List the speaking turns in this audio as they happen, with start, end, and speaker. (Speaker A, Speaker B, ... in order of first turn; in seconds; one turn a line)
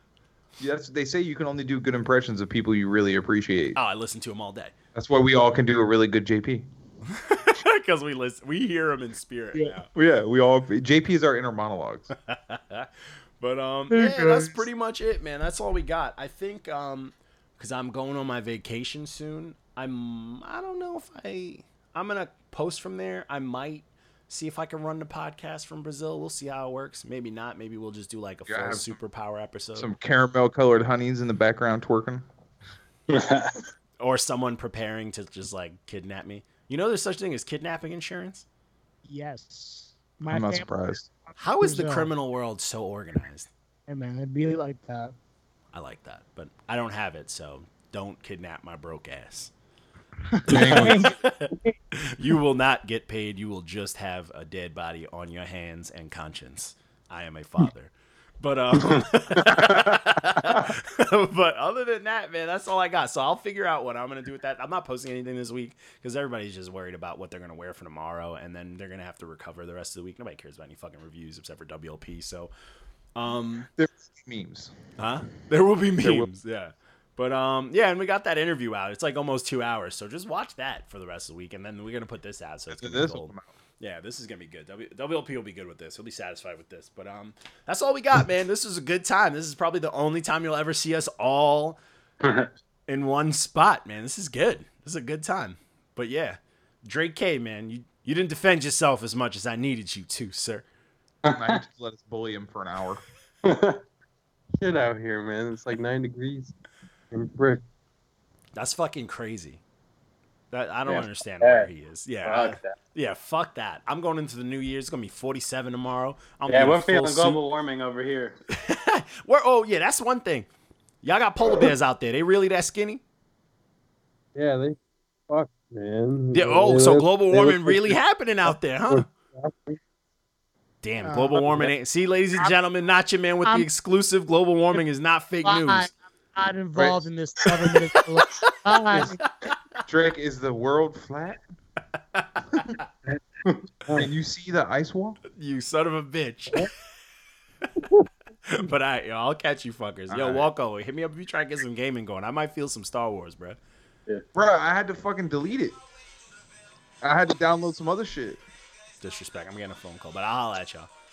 Speaker A: 0.6-3.8
Speaker B: 3.8-4.7
Speaker A: 5.0-6.7
Speaker B: 7.1-9.9
Speaker A: 9.9-12.1
Speaker B: 12.3-29.9
Speaker A: 13.9-14.6
Speaker A: 28.5-29.0
Speaker A: 29.8-32.3
Speaker C: 33.1-33.5
Speaker B: 34.0-38.5
Speaker D: 39.1-40.7
Speaker A: 40.3-41.1
Speaker B: 41.4-43.5
Speaker D: 41.6-42.1
Speaker D: 43.9-45.1
Speaker B: 45.7-49.5
Speaker D: 50.3-51.7
Speaker A: 50.5-51.2
Speaker C: 50.5-50.9
Speaker B: 50.6-72.5
Speaker B: 73.2-73.7
Speaker A: 73.8-74.8
Speaker B: 75.0-91.8
Speaker A: 76.0-76.3
Speaker A: 82.7-83.5
Speaker C: 92.2-92.5
Speaker B: 92.9-100.7
Speaker C: 101.2-101.6
Speaker A: 101.3-103.0
Speaker C: 103.5-103.8
Speaker E: 104.6-106.5
Speaker E: 107.1-107.6
Speaker B: 108.5-109.6
Speaker B: 110.5-117.4
Speaker C: 110.9-111.7
Speaker C: 112.2-112.8
Speaker C: 116.5-118.4
Speaker B: 118.5-120.5
Speaker B: 121.0-123.0
Speaker E: 124.3-129.8
Speaker B: 126.3-129.1
Speaker B: 130.8-135.9
Speaker D: 131.0-131.6
Speaker D: 133.4-133.7
Speaker D: 135.4-139.2
Speaker B: 137.7-139.5
Speaker A: 139.9-141.4
Speaker B: 142.1-142.8
Speaker A: 143.9-145.2
Speaker B: 145.4-146.7
Speaker B: 148.5-153.6
Speaker A: 150.1-150.5
Speaker A: 154.3-155.8
Speaker A: 157.0-158.4
Speaker B: 159.0-160.9